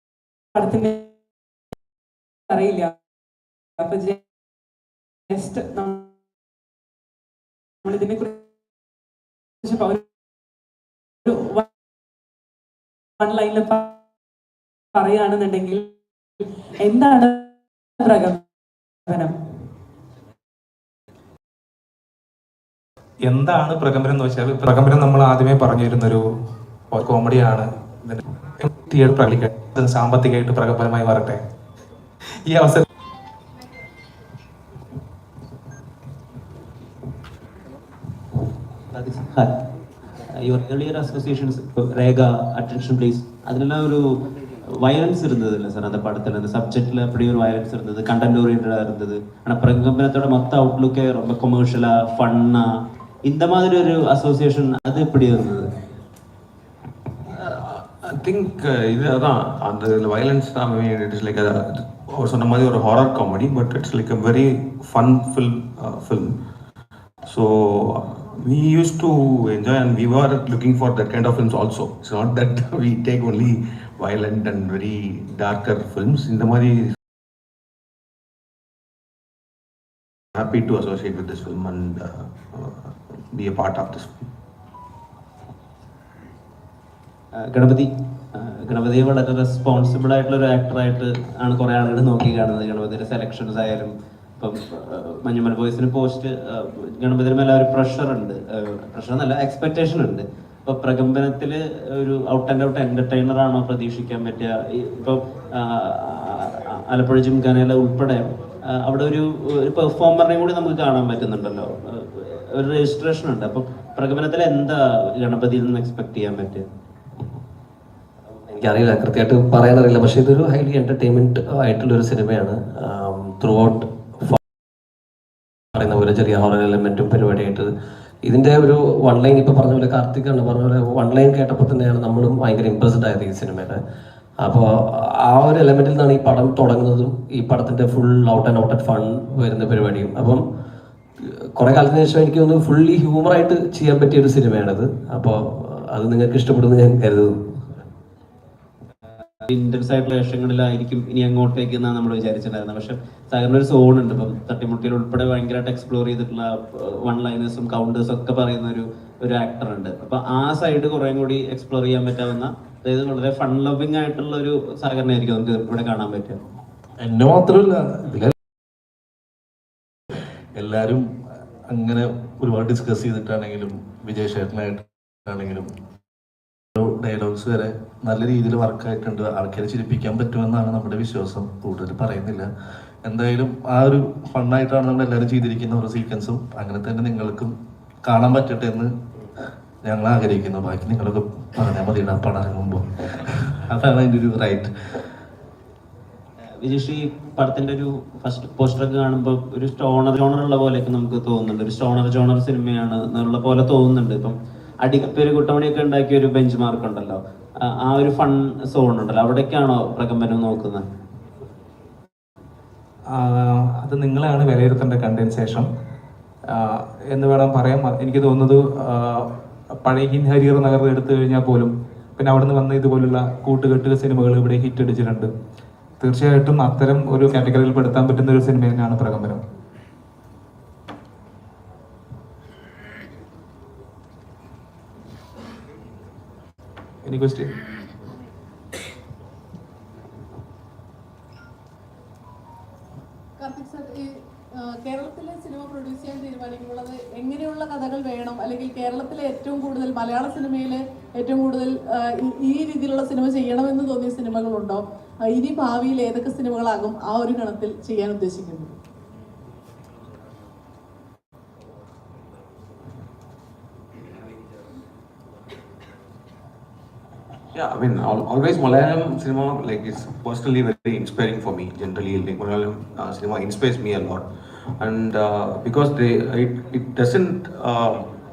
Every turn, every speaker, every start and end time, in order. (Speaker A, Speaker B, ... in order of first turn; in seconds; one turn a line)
Speaker A: 0.5-1.1
Speaker A: 2.5-3.0
Speaker A: 3.8-4.2
Speaker A: 5.3-6.1
Speaker A: 7.8-8.4
Speaker A: 9.6-10.0
Speaker A: 11.2-11.7
Speaker A: 13.2-14.0
Speaker A: 14.9-15.9
Speaker A: 16.8-18.4
Speaker A: 19.1-19.4
Speaker B: 23.2-26.2
Speaker B: 26.9-31.4
Speaker B: 32.5-32.8
Speaker C: 38.9-39.5
Speaker C: 40.4-44.0
Speaker C: 44.8-52.6
Speaker C: 53.3-55.7
Speaker D: 57.3-66.4
Speaker D: 67.2-77.0
Speaker D: 80.3-84.3
Speaker C: 87.4-116.7
Speaker E: 118.5-124.4
Speaker E: 125.7-127.7
Speaker E: 128.2-133.8
Speaker E: 134.4-140.4
Speaker E: 141.6-147.3
Speaker C: 149.5-166.4
Speaker F: 167.0-168.3
Speaker F: 170.6-171.0
Speaker F: 171.7-175.7
Speaker F: 176.7-182.5
Speaker F: 183.0-187.5
Speaker F: 188.1-188.9
Speaker F: 189.8-195.0
Speaker C: 196.6-210.8
Speaker B: 213.1-215.7
Speaker B: 216.5-219.3
Speaker B: 219.8-225.3
Speaker B: 226.0-229.4
Speaker B: 237.0-237.5
Speaker G: 243.4-258.7
Speaker D: 267.5-274.2
Speaker D: 274.8-278.1